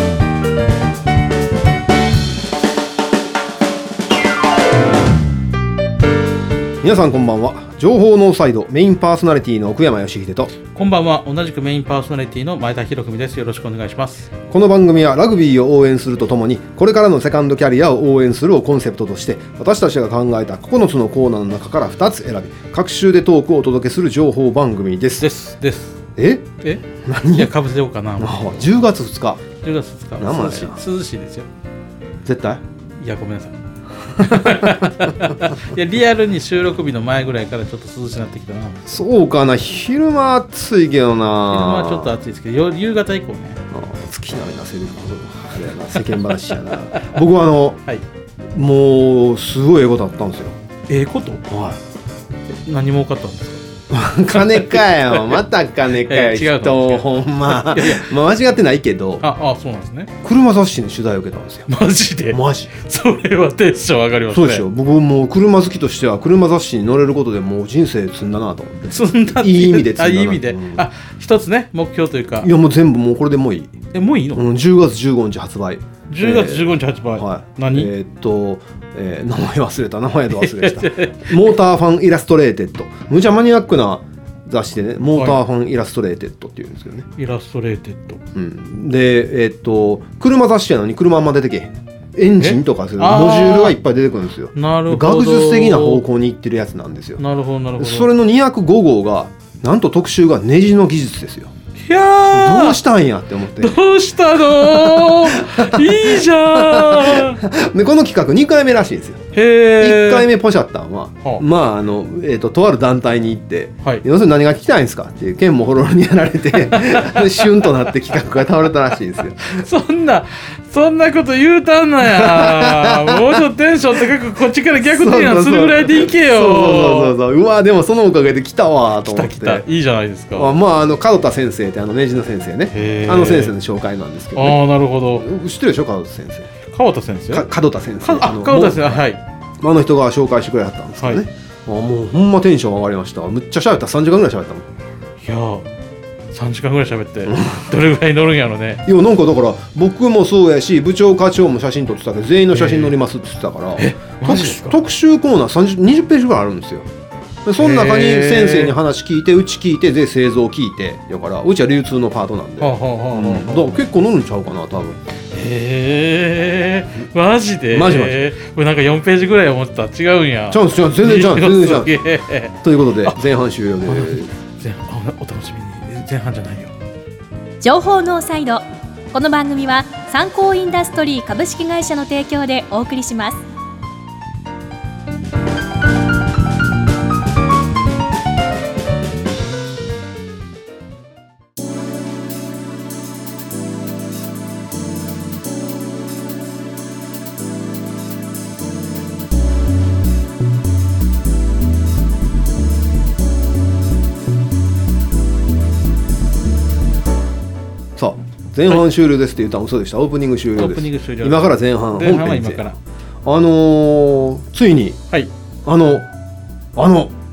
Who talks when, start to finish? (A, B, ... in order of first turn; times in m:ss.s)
0:06.8-0:10.5 A
0:10.7-0:14.3 B
0:14.5-0:25.3 A
0:25.2-0:26.0 B
0:26.2-0:27.5 A
0:26.6-0:28.6 B
0:28.2-0:29.5 A
0:29.6-0:31.5 B
0:30.2-0:30.8 A
0:32.2-0:32.6 A
0:33.0-0:33.6 B
0:34.1-0:38.8 B
0:34.2-0:34.8 A
0:38.8-0:42.1 A
0:41.5-0:43.6 B
0:43.7-0:47.8 A
0:46.9-0:47.2 B
0:48.5-0:50.6 A
0:50.9-0:51.4 B
0:51.4-0:51.8 A
0:52.6-0:53.6 B
0:53.9-0:59.2 A
0:54.3-0:55.4 B
0:56.0-0:58.1 B
0:59.2-1:00.1 B
1:00.2-1:01.7 A
1:01.7-1:04.6 B
1:02.3-1:02.7 A
1:04.3-1:10.8 A
1:08.9-1:12.5 B
1:12.4-1:13.8 A
1:13.9-1:14.4 B
1:14.3-1:27.1 A
1:16.1-1:17.9 B
1:20.3-1:21.3 B
1:25.2-1:25.4 B
1:27.2-1:28.2 B
1:28.3-1:37.2 A
1:32.4-1:33.8 B
1:34.5-1:36.0 B
1:37.2-1:38.1 B
1:37.8-1:41.5 A
1:41.8-1:42.8 B
1:42.3-1:43.8 A
1:43.6-1:47.4 B
1:44.6-1:59.6 A
1:49.3-1:50.3 B
1:56.9-1:57.4 B
1:59.4-2:07.2 B
2:02.0-2:03.3 A
2:04.8-2:09.6 A
2:09.0-2:10.6 B
2:10.3-2:14.6 A
2:12.7-2:13.6 B
2:14.3-2:15.3 B
2:15.1-2:16.5 A
2:16.7-2:17.5 B
2:17.3-2:19.0 A
2:18.0-2:19.2 B
2:19.6-2:24.6 A
2:25.2-2:25.7 B
2:26.3-2:28.8 B
2:27.3-2:27.6 A
2:28.8-2:36.9 A
2:32.5-2:32.9 B
2:33.8-2:34.8 B
2:37.4-2:45.0 A
2:37.6-2:38.8 B
2:42.6-2:43.8 B
2:45.3-2:53.2 B
2:47.7-2:48.2 A
2:50.5-2:52.0 A
2:52.6-2:54.3 A
2:53.8-2:56.7 B
2:57.6-3:03.4 C
3:28.0-3:32.6 A
3:30.5-3:32.8 B
3:33.2-3:35.0 A
3:35.6-3:36.1 A
3:36.8-3:37.1 A